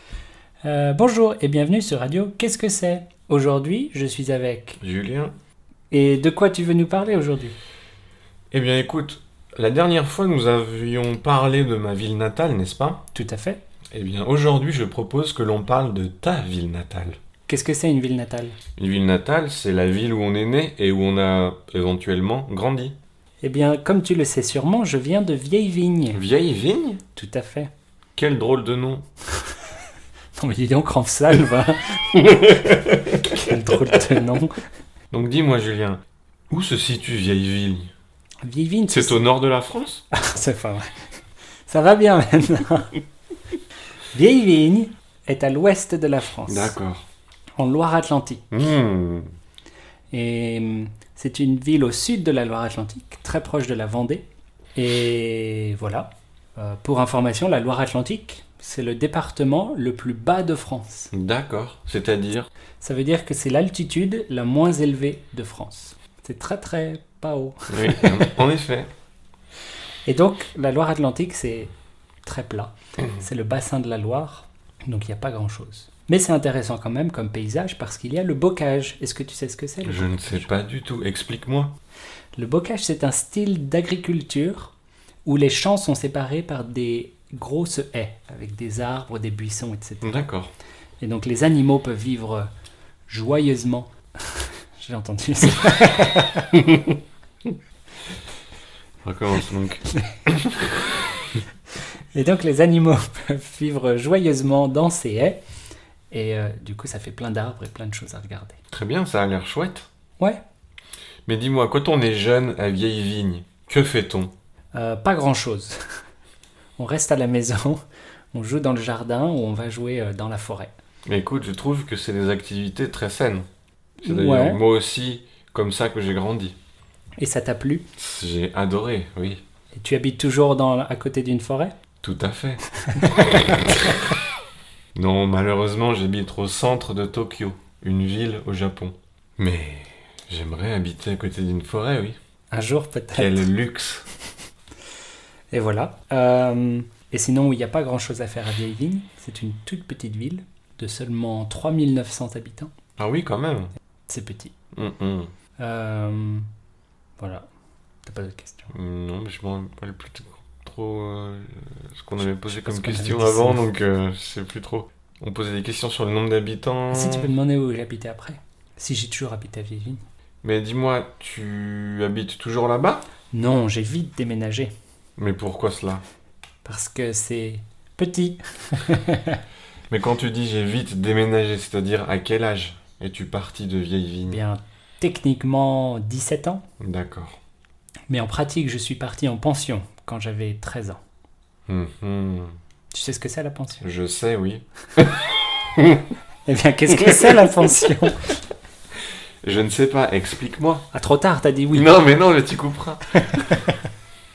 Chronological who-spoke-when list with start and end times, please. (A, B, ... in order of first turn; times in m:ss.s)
0:00.6-0:04.8 A
0:04.8-0:05.3 B
0:05.9-0:07.5 A
0:08.5-0:13.0 B
0:13.1-0:13.6 A
0:13.9-0:17.2 B
0:17.5-0:18.6 A
0:18.8-0:23.0 B
0:23.4-0:26.2 A
0:26.1-0:27.0 B
0:27.2-0:27.7 A
0:28.2-0:29.0 B
0:30.4-0:32.4 A
0:32.1-0:33.2 B
0:33.2-0:34.5 A
0:35.1-0:37.9 B
0:38.4-0:39.2 A
0:38.9-0:40.0 B
0:40.1-0:40.9 A
0:41.7-0:43.0 A
0:44.1-0:46.7 A
0:46.5-0:47.1 B
0:47.6-0:48.5 A
0:48.5-0:49.3 B
0:50.1-1:01.1 A
1:01.1-1:02.5 B
1:02.8-1:08.3 A
1:07.7-1:08.9 B
1:10.0-1:11.7 A
1:12.2-1:20.5 A
1:19.8-1:21.8 B
1:22.4-1:30.3 A
1:30.0-1:30.5 B
1:31.0-1:32.5 A
1:33.1-1:36.7 A
1:39.0-1:40.8 B
1:42.1-1:45.4 A
1:46.1-1:48.6 A
1:48.7-1:49.9 B
1:51.2-1:54.3 B
1:54.7-1:55.8 A
1:56.8-1:57.8 A
1:58.3-2:00.7 A
2:01.1-2:03.4 B
2:04.0-2:04.6 A
2:04.0-2:06.6 B
2:07.2-2:07.8 A
2:08.0-2:09.4 B
2:09.7-2:11.7 A
2:12.0-2:14.0 B
2:12.8-2:13.6 A
2:15.0-2:22.2 B
2:22.5-2:23.4 A
2:23.1-2:24.1 B
2:25.5-2:32.7 A
2:33.0-2:33.7 B
2:34.1-2:34.5 A
2:34.7-2:35.3 B
2:35.6-2:36.5 A
2:37.2-2:37.4 A
2:38.0-2:38.7 A
2:38.7-2:47.3 B
2:42.4-2:43.7 A
2:46.9-2:50.0 A
2:50.4-2:53.0 B
2:53.3-2:54.7 A
2:55.2-2:56.0 B
2:56.6-2:59.4 A
2:59.9-3:04.4 B
3:04.2-3:06.6 A
3:06.8-3:07.4 B
3:08.1-3:11.0 A
3:11.7-3:12.5 B
3:12.9-3:13.9 A
3:13.8-3:16.1 B
3:16.4-3:18.4 A
3:17.0-3:17.5 B
3:19.4-3:20.9 B
3:20.9-3:21.9 A
3:21.7-3:23.6 B
3:23.2-3:23.8 A